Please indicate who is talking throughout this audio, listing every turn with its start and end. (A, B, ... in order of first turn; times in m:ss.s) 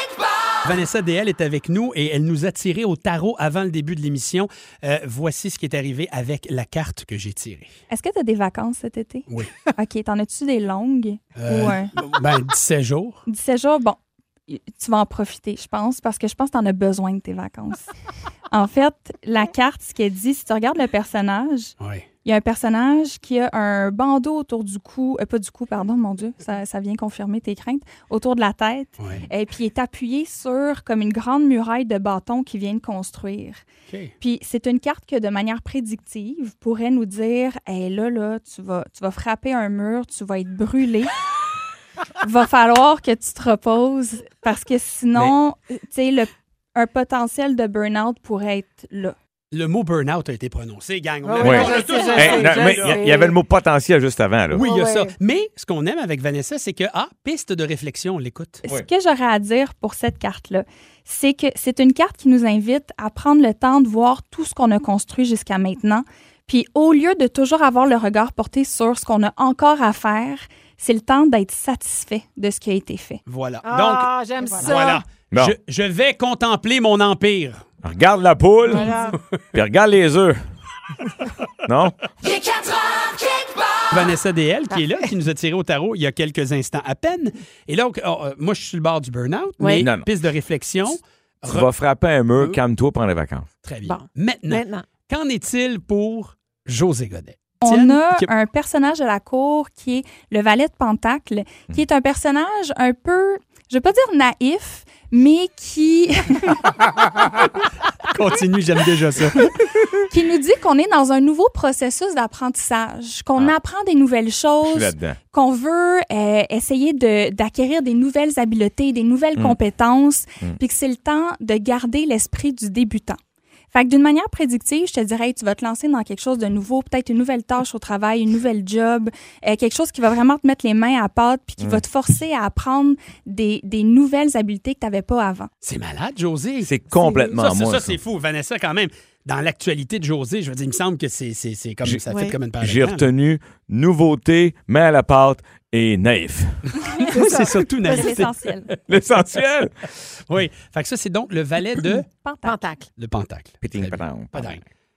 0:00.6-0:07.7 A
0:07.9-0:11.9 B
0:09.3-0:09.5 A
0:11.4-0:13.2 A
0:13.3-0:17.9 B
0:18.5-0:21.7 B
0:21.8-0:22.0 A
0:22.2-0:33.6 B
0:29.0-0:29.2 A
0:34.2-0:41.1 B
0:42.2-0:49.2 B
0:49.5-0:53.0 A
0:51.2-0:53.4 C
0:51.4-0:54.6 D
0:54.5-0:58.6 A
0:54.5-0:55.1 C
0:58.6-1:13.2 B
1:13.3-1:17.6 A
1:13.6-1:15.0 C
1:17.8-1:18.9 D
1:18.7-1:19.2 C
1:19.5-1:20.4 D
1:21.6-1:22.0 D
1:23.9-1:31.7 A
1:24.7-1:25.0 C
1:29.6-1:29.8 C
1:29.8-1:30.1 D
1:31.4-1:33.5 D
1:33.6-1:38.3 A
1:33.8-1:34.8 C
1:37.6-1:46.6 B
1:46.8-1:47.3 A
1:48.1-1:49.8 A
1:50.1-2:03.2 B
1:54.6-1:55.2 D
2:03.7-2:15.5 B
2:15.6-2:16.7 A
2:16.6-2:18.0 D
2:17.0-2:17.3 C
2:17.3-2:23.1 A
2:22.1-2:22.4 C
2:22.6-2:26.7 D
2:27.0-2:28.8 A
2:27.1-2:28.2 C
2:27.9-2:28.7 B
2:28.9-2:29.9 D
2:30.3-2:32.1 A
2:32.2-2:32.6 B
2:32.4-2:32.9 C
2:33.0-2:34.6 A
2:33.6-2:34.6 D